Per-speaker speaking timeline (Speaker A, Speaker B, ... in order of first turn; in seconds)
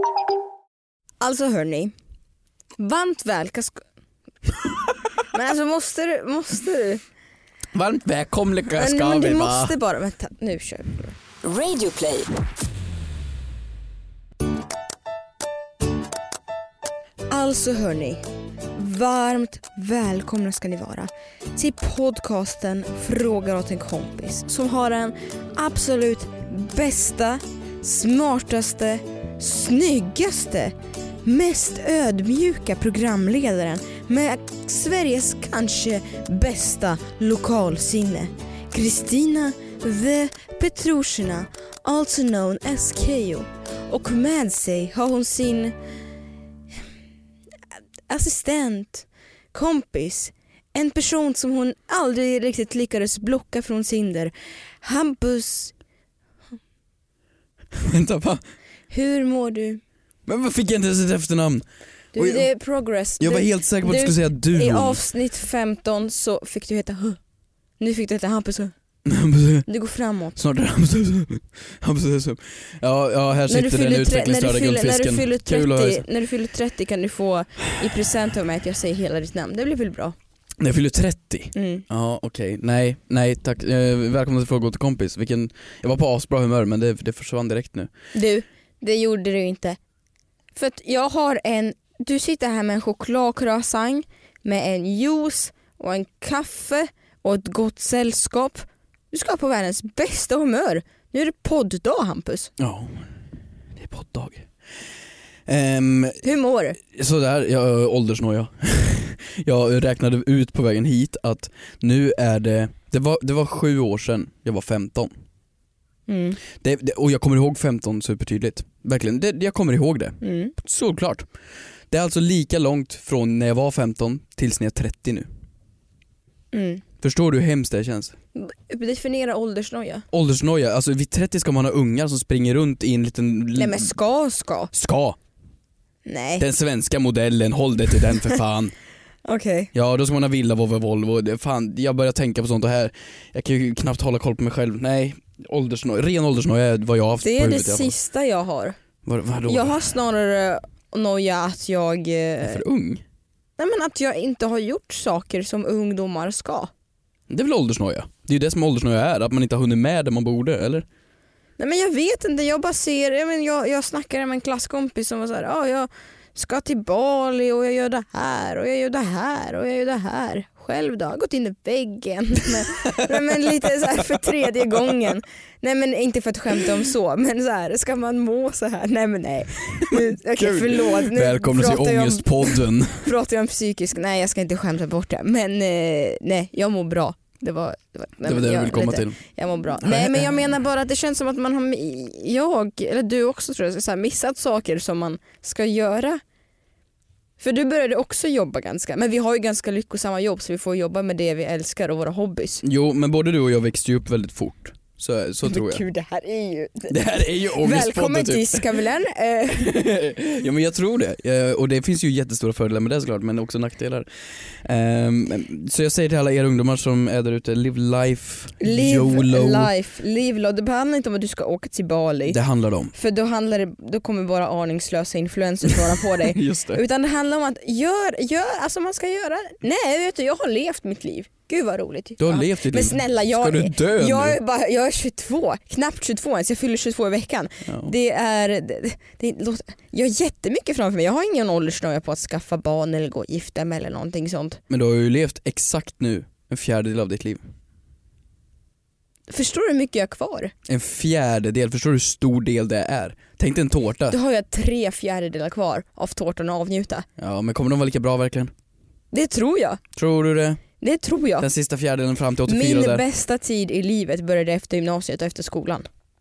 Speaker A: 1.2-1.9, 2.8-3.8, 5.3-7.0, 8.7-12.3, 17.3-18.2, 18.7-45.7, 48.1-54.3, 54.8-55.7, 58.9-59.8, 62.1-67.2, 67.8-68.7, 69.7-70.4, 73.5-80.1, 81.5-81.8, 88.1-89.8, 90.5-102.5, 106.2-106.8, 116.1-116.4, 120.2-120.5, 126.5-126.8, 128.3-130.0, 133.6-134.7, 136.1-136.4, 139.2-139.7, 147.2-148.8, 149.5-152.6, 153.6-156.7, 161.6-196.2, 197.4-202.6, 205.4-209.8, 218.6-222.4, 222.9-244.6, 249.3-250.5, 254.1-257.1, 259.1-259.8, 260.8-261.5, 262.5-265.9
Speaker B: 7.7-9.7, 57.7-58.4, 60.3-61.6, 62.1-62.5, 63.2-65.0, 69.0-69.7, 70.3-76.0, 80.6-87.9, 102.6-103.0, 103.8-104.5, 105.5-106.2, 106.8-115.1, 116.6-121.3, 121.9-125.3, 127.0-128.1, 130.1-133.9, 134.7-135.2, 136.4-138.7, 139.7-147.9, 149.0-149.8, 152.4-153.0, 157.3-160.8, 173.0-173.2, 174.0-174.3, 179.9-183.1, 188.2-189.2, 189.8-190.4, 202.6-205.8, 206.9-208.7, 209.5-219.7, 222.3-222.9, 225.7-226.8, 232.2-234.4, 237.7-237.9, 244.7-247.4, 250.7-254.2, 257.2-258.5, 259.9-260.6, 261.4-263.0